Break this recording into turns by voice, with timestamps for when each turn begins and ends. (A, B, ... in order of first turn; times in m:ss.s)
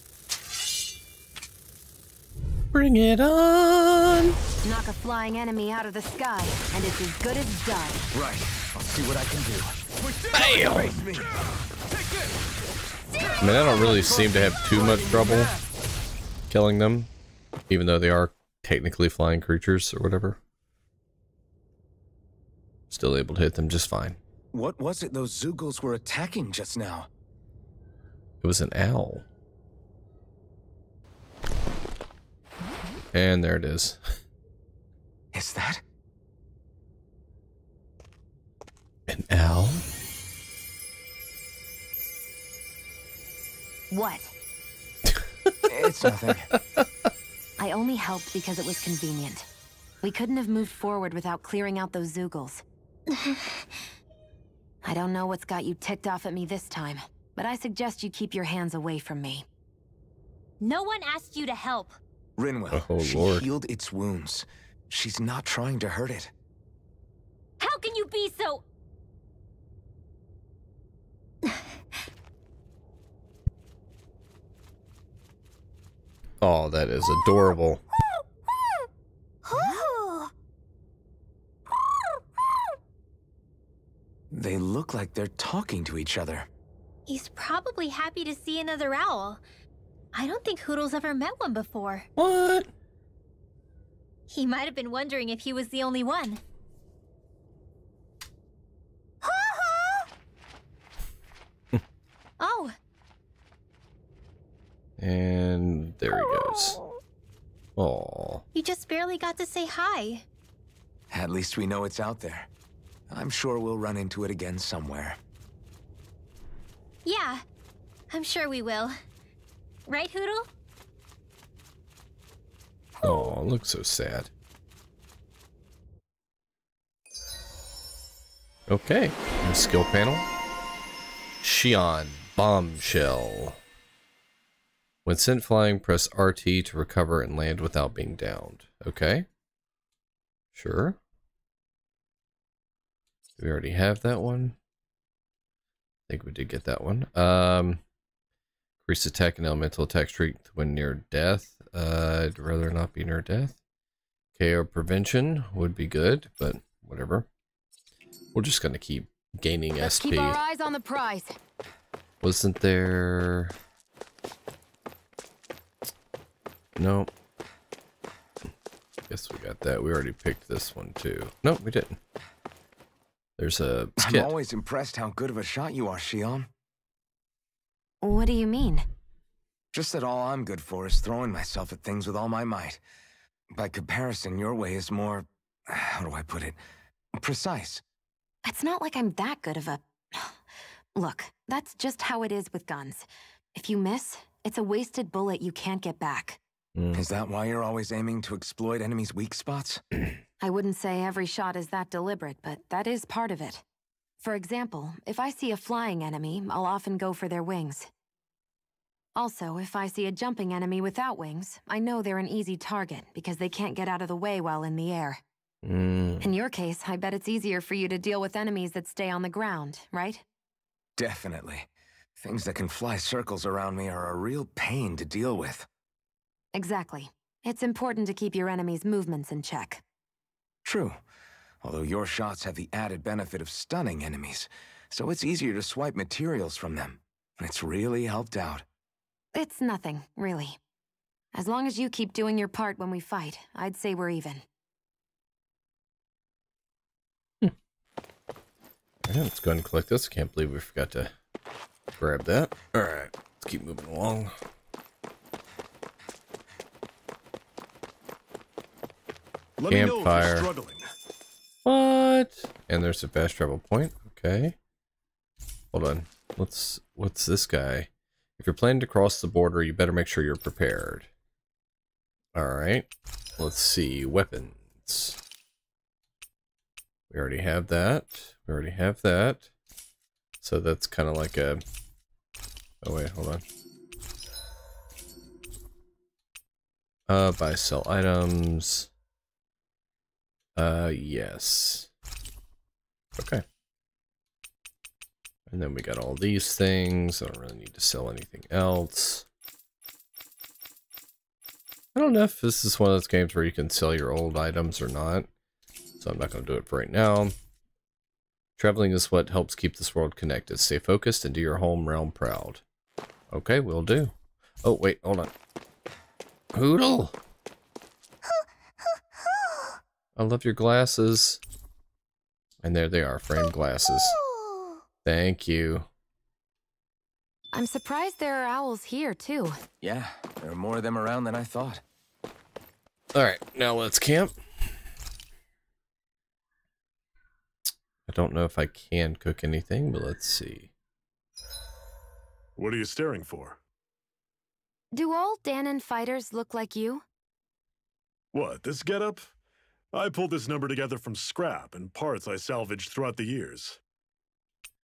0:02.7-0:04.3 A
0:04.6-0:08.1 B
0:08.1-0:11.4 C
0:10.3-0:10.9 A
0:13.4-0:15.5 A
0:13.8-0:15.6 C
0:16.5-0:17.1 A
0:17.7-0:20.4 A
0:22.9-0:24.2 A
0:24.5-0:27.1 C
0:28.4-0:29.2 A
0:33.1-0:34.0 A
0:35.3-0:35.8 C
0:39.1-0:39.8 A
0:43.9-0:44.3 B
0:45.7-0:46.5 C
0:46.5-0:46.8 A
0:47.6-0:49.4 B
0:50.0-0:52.6 B
0:53.1-0:53.6 D
0:54.8-0:59.4 B
1:00.6-1:02.0 D
1:02.4-1:06.3 C
1:02.7-1:03.5 A
1:07.6-1:08.6 D
1:16.4-1:17.8 A
1:19.5-1:20.2 D
1:24.3-1:26.5 C
1:27.1-1:29.4 D
1:30.1-1:32.1 D
1:32.2-1:32.7 A
1:34.3-1:36.4 D
1:39.2-1:40.0 D
1:42.4-1:42.7 D
1:45.0-1:46.8 A
1:47.8-1:48.4 A
1:48.5-1:50.2 D
1:51.1-1:52.5 C
1:53.1-1:55.2 C
1:57.0-1:57.4 D
1:58.1-1:58.9 D
1:59.8-2:00.5 D
2:03.0-2:04.3 A
2:08.7-2:10.2 A
2:11.4-2:13.6 A
2:15.0-2:19.3 A
2:20.5-2:21.0 A
2:23.4-2:24.6 A
2:26.1-2:27.8 A
2:28.8-2:33.6 A
2:34.4-2:37.3 A
2:38.3-2:40.4 A
2:39.8-2:41.4 B
2:42.2-2:43.5 A
2:46.8-2:47.1 A
2:49.1-2:52.0 A
2:53.4-2:54.3 A
2:54.0-2:56.5 C
2:58.0-2:58.8 B
2:59.7-3:02.8 C
3:03.5-3:06.6 C
3:07.1-3:07.8 C
3:08.4-3:10.4 B
3:10.9-3:16.4 B
3:16.7-3:17.1 A
3:16.9-3:19.8 C
3:20.4-3:23.6 B
3:24.2-3:27.9 B
3:29.1-3:35.2 B
3:35.6-3:36.3 A
3:36.2-3:40.2 B
3:41.0-3:41.7 C
3:42.2-3:45.6 C
3:46.5-3:49.8 B
3:50.6-3:50.9 C
3:51.6-3:58.6 C
3:59.3-4:00.6 B
4:01.3-4:04.4 B
4:09.0-4:11.1 A
4:12.0-4:14.3 A
4:19.6-4:20.8 E
4:19.7-4:20.5 A
4:21.6-4:24.6 A
4:25.7-4:31.1 A
4:32.3-4:35.2 A
4:37.1-4:39.5 A
4:40.4-4:41.6 A
4:42.8-4:43.4 A
4:47.1-4:48.9 A
4:50.6-4:51.9 A
4:53.2-4:53.4 A
4:55.5-4:59.2 A
5:01.9-5:05.3 A
5:06.0-5:07.3 A
5:08.6-5:12.6 A
5:13.3-5:15.3 A
5:16.5-5:17.2 A
5:20.2-5:21.4 A
5:22.6-5:24.2 A
5:25.0-5:25.9 A
5:27.5-5:29.6 B
5:29.8-5:31.8 C
5:33.1-5:34.4 A
5:38.1-5:40.7 A
5:42.6-5:43.6 E
5:44.9-5:47.0 B
5:48.3-5:49.2 E
5:49.9-5:53.8 E